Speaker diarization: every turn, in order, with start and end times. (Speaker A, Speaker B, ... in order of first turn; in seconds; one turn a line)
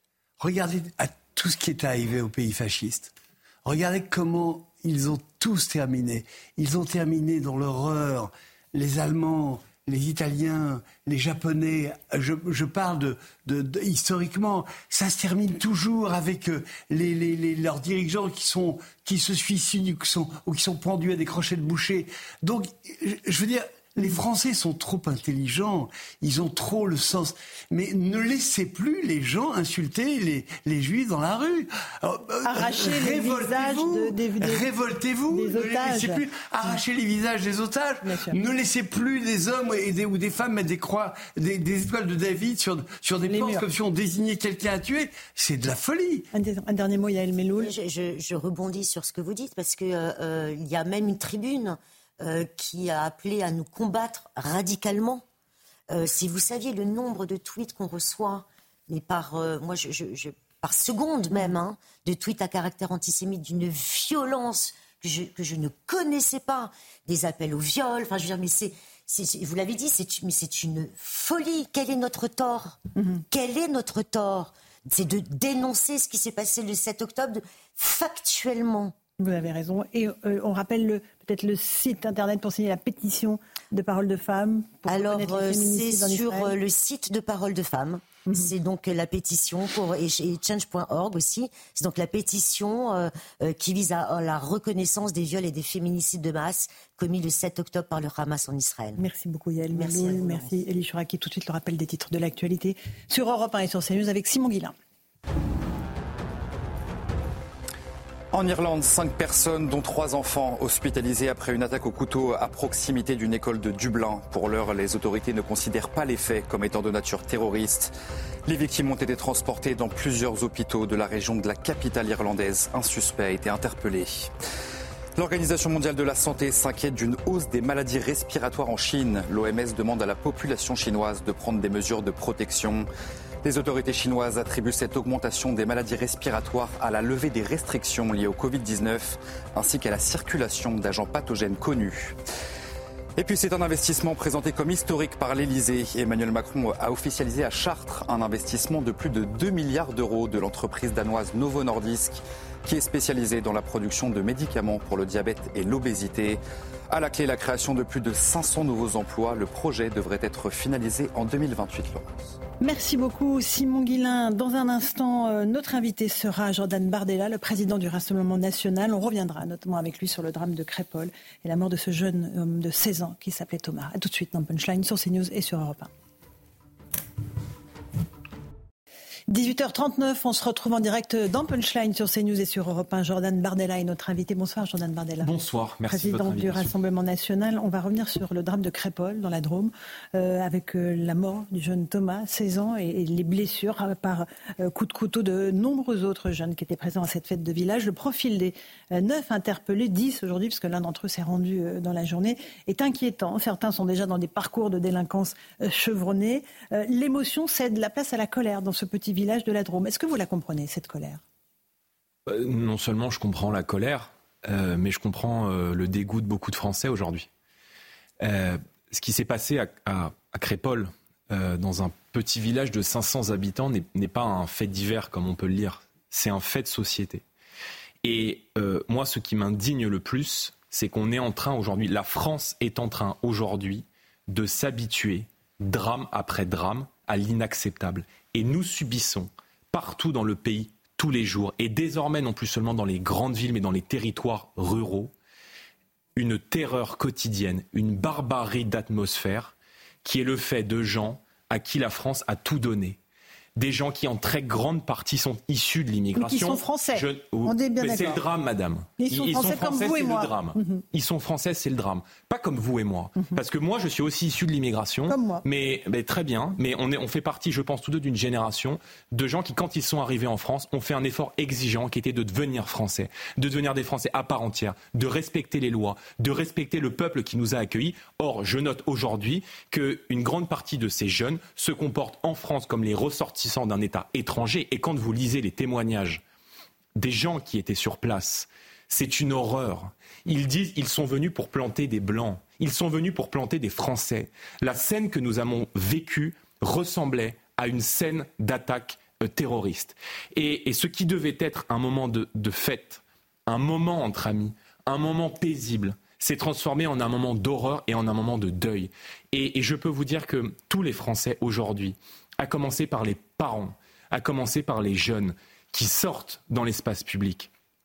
Speaker A: 0.4-3.1
Speaker A: 3.6-46.3
Speaker B: 32.4-34.7
Speaker B: 35.3-36.8
Speaker B: 38.0-38.4
Speaker B: 43.3-43.7
Speaker B: 46.3-47.7
Speaker C: 47.6-55.2
Speaker C: 55.9-72.8
Speaker B: 73.0-73.2
Speaker C: 73.3-78.9
Speaker B: 79.2-86.6
Speaker C: 84.9-99.0
Speaker B: 99.0-104.7
Speaker C: 99.7-100.6
Speaker D: 108.3-117.9
Speaker D: 118.5-124.3
Speaker D: 125.2-132.9
Speaker D: 133.4-142.2
Speaker D: 143.2-162.3
Speaker B: 162.6-175.9
Speaker B: 179.3-185.3
Speaker E: 185.2-186.7
Speaker B: 185.9-211.2
Speaker E: 212.3-217.3
Speaker E: 218.2-227.2
Speaker E: 228.0-245.1
Speaker E: 246.2-253.0
Speaker E: 253.6-286.2
Speaker B: 256.1-258.2
Speaker B: 259.0-260.8
Speaker B: 265.1-265.4
Speaker E: 286.9-317.5